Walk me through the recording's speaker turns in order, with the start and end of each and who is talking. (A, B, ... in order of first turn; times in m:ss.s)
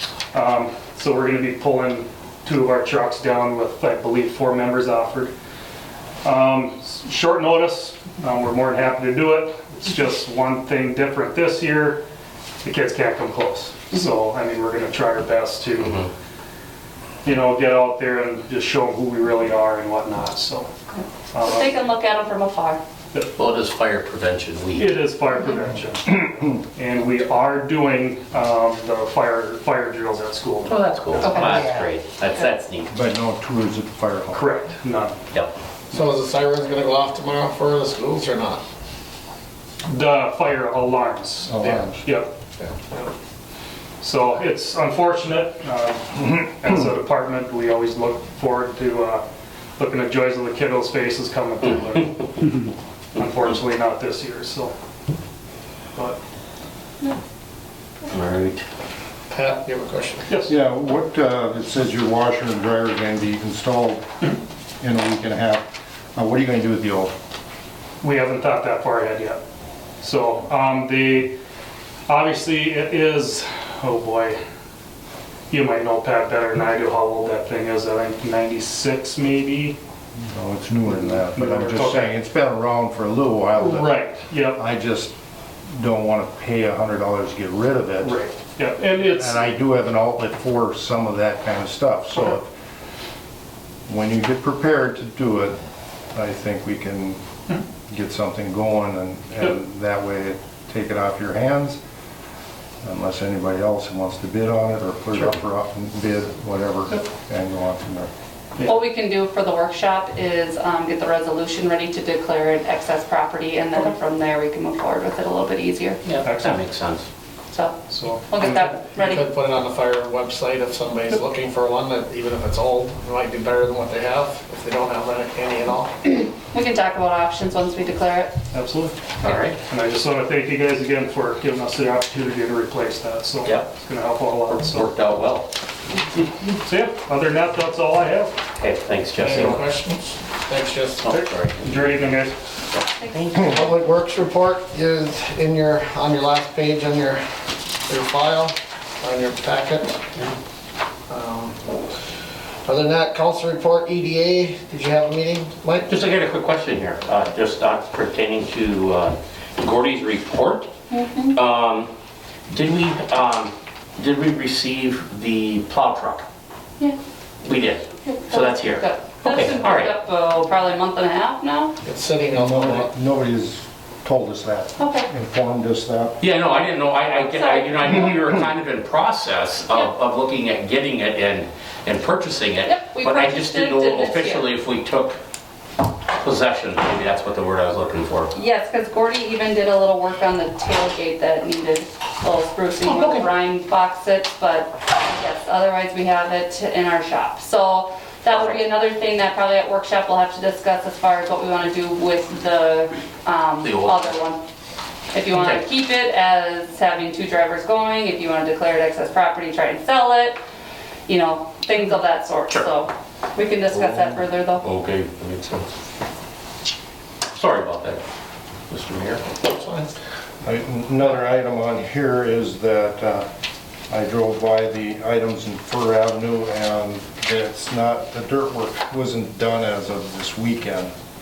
0:00.3-0:05.3 A
0:06.2-0:12.0 A
0:12.6-0:16.1 A
0:15.8-0:16.1 B
0:17.2-0:20.7 A
0:20.9-0:22.8 C
0:21.3-0:21.7 A
0:23.4-0:25.0 B
0:24.7-0:31.3 A
0:30.6-0:32.9 B
0:31.2-0:31.6 C
0:32.9-0:34.4 D
0:34.3-0:35.2 A
0:35.9-0:38.6 E
0:39.8-0:42.3 A
0:41.5-0:42.0 D
0:41.6-0:41.9 E
0:42.6-0:43.1 E
0:44.0-0:49.2 A
0:49.8-0:54.7 A
0:58.1-0:58.6 B
0:59.3-1:00.3 E
1:00.3-1:00.5 A
1:00.5-1:04.0 D
1:04.8-1:07.1 D
1:08.0-1:09.4 A
1:10.0-1:11.4 A
1:12.1-1:14.4 A
1:15.5-1:19.8 A
1:20.2-1:24.0 D
1:20.9-1:22.1 A
1:23.6-1:24.6 A
1:24.6-1:25.1 D
1:25.7-1:28.2 D
1:28.0-1:29.5 A
1:29.0-1:32.5 D
1:33.9-1:35.6 D
1:36.1-1:37.2 D
1:37.9-1:41.8 D
1:42.8-1:48.1 D
1:48.6-1:56.0 C
1:56.0-1:57.0 B
1:56.2-1:56.6 A
1:57.5-1:57.8 C
1:57.9-1:58.8 A
1:58.3-1:59.2 C
1:59.0-2:05.9 E
2:06.5-2:08.3 C
2:08.5-2:14.9 A
2:09.2-2:09.6 B
2:13.4-2:13.7 B
2:14.5-2:15.5 B
2:16.5-2:18.3 A
2:18.5-2:19.6 B
2:19.2-2:21.1 E
2:21.0-2:22.0 B
2:21.1-2:22.3 A
2:22.8-2:23.4 C
2:23.1-2:23.7 B
2:23.4-2:27.2 E
2:27.9-2:30.0 E
2:31.1-2:31.6 E
2:32.6-2:35.9 E
2:35.8-2:40.7 B
2:40.9-2:41.4 C
2:41.3-2:41.9 B
2:42.5-2:46.2 B
2:47.4-2:49.9 B
2:48.0-2:51.7 C
2:51.8-2:52.9 E
2:52.3-2:56.2 D
2:54.8-2:55.1 C
2:56.2-3:05.2 B
2:57.0-2:58.2 C
3:02.6-3:04.5 C
3:06.2-3:08.3 B
3:08.3-3:24.4 C
3:12.8-3:13.2 B
3:18.3-3:18.6 B
3:23.6-3:24.1 B
3:25.1-3:30.4 C
3:25.3-3:25.6 B
3:31.1-3:34.6 C
3:33.7-3:35.7 B
3:37.3-3:38.0 B
3:38.7-3:39.2 B
3:39.4-3:39.9 E
3:40.4-3:43.3 D
3:43.9-3:50.9 D